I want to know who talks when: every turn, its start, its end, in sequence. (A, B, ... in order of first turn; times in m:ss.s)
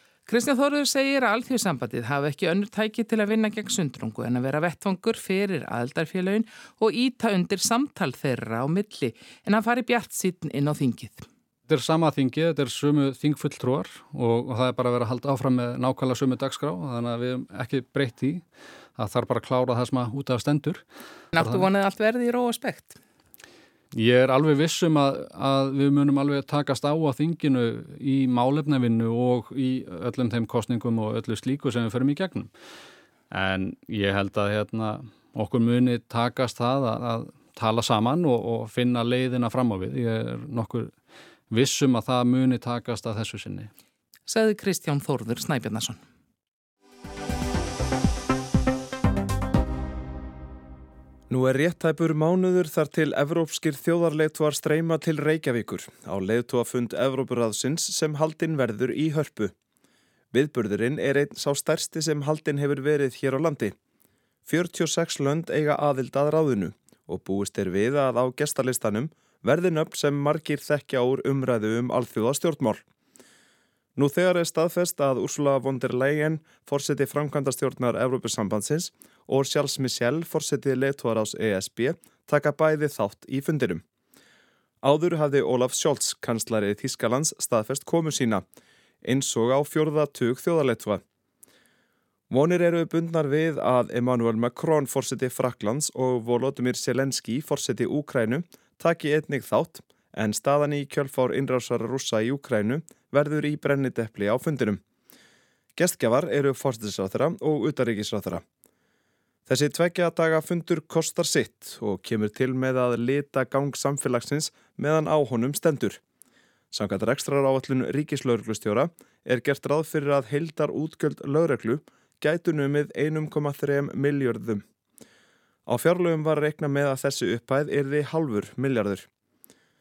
0:00.3-0:11.2 A
0:11.7-0:18.4 B
0:19.0-0:20.8 B
0:21.3-0:23.0 A
0:21.4-0:21.7 B
0:23.9-0:32.5 B
0:33.3-0:40.9 B
0:41.5-0:43.7 B
0:44.3-0:46.0 A
0:51.3-0:59.5 C
1:00.3-1:03.7 C
1:04.4-1:12.8 C
1:14.0-1:23.8 C
1:24.8-1:28.4 C
1:29.0-1:31.0 C
1:32.3-1:44.8 C
1:45.8-1:48.4 C
1:49.5-1:56.0 C
1:56.7-2:04.6 C
2:05.7-2:09.1 C